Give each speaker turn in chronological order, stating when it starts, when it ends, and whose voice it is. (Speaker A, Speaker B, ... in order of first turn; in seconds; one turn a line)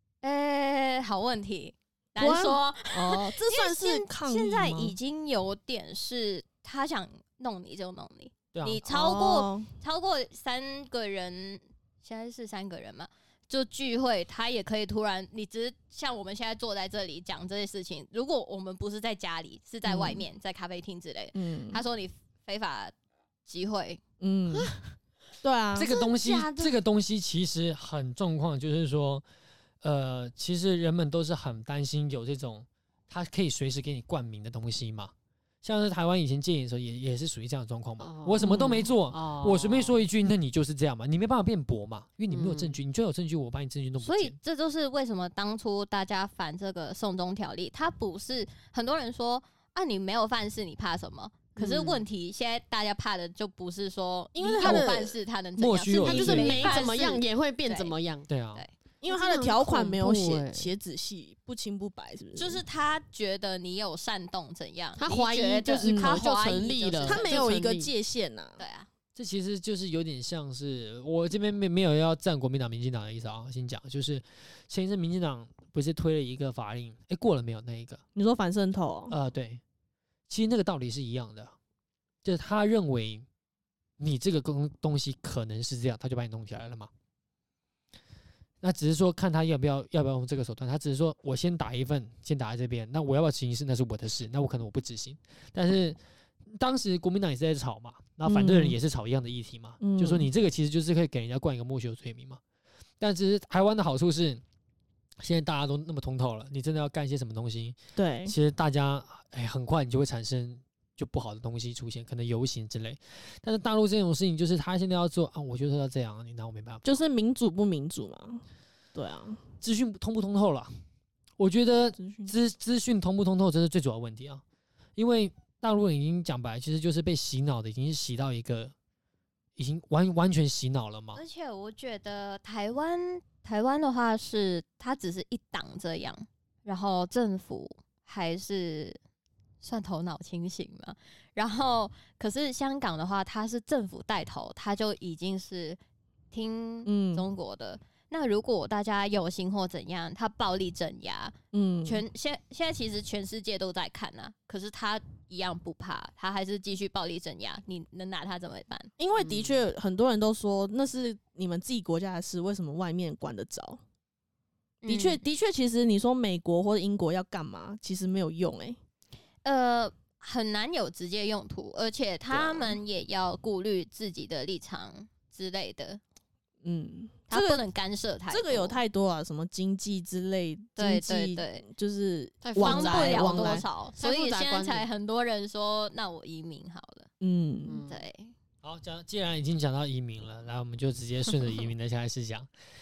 Speaker A: 0.2-22.9
Speaker B: 2.2-5.0
Speaker C: 8.5-8.8
Speaker B: 8.8-9.7
Speaker B: 19.9-20.2
Speaker B: 21.4-21.8
Speaker A: 23.4-24.0
Speaker B: 24.2-24.8
Speaker B: 25.4-25.9
Speaker C: 25.8-29.2
Speaker D: 25.9-26.7
Speaker C: 29.8-35.1
Speaker C: 35.6-44.4
Speaker D: 38.0-40.0
Speaker B: 38.4-38.9
Speaker D: 42.3-42.8
Speaker A: 44.0-58.0
Speaker D: 51.6-52.0
Speaker B: 54.4-55.0
Speaker D: 54.6-55.1
Speaker C: 55.6-56.8
Speaker D: 56.0-58.3
Speaker C: 58.3-58.6
Speaker B: 59.0-62.6
Speaker D: 59.1-60.7
Speaker A: 62.4-67.5
Speaker D: 65.0-67.9
Speaker B: 65.8-66.2
Speaker B: 67.0-68.6
Speaker A: 68.6-68.9
Speaker C: 69.2-78.0
Speaker B: 78.2-79.2
Speaker C: 79.1-79.6
Speaker C: 80.3-81.5
Speaker C: 82.2-83.3
Speaker C: 84.0-86.9
Speaker C: 88.6-102.4
Speaker B: 98.2-98.8
Speaker B: 99.8-100.3
Speaker C: 103.0-104.4
Speaker C: 105.2-116.8
Speaker B: 108.0-108.3
Speaker B: 116.8-118.4
Speaker B: 118.9-119.4
Speaker C: 119.6-120.7
Speaker C: 121.4-124.4
Speaker B: 122.0-122.3
Speaker C: 125.0-128.7
Speaker C: 129.6-131.2
Speaker A: 131.2-139.0
Speaker A: 139.6-145.8
Speaker A: 146.3-158.9
Speaker B: 146.9-147.3
Speaker B: 151.5-152.0
Speaker B: 159.0-163.8
Speaker D: 159.2-159.6
Speaker A: 164.8-165.2
Speaker B: 164.9-168.8
Speaker A: 169.4-176.0
Speaker B: 172.3-172.8
Speaker B: 176.6-177.7
Speaker A: 177.3-178.8
Speaker B: 178.3-183.7
Speaker A: 180.8-181.7
Speaker D: 182.4-184.9
Speaker A: 182.6-187.1
Speaker B: 187.2-187.8
Speaker D: 187.7-188.0
Speaker A: 187.9-188.3
Speaker C: 188.6-192.5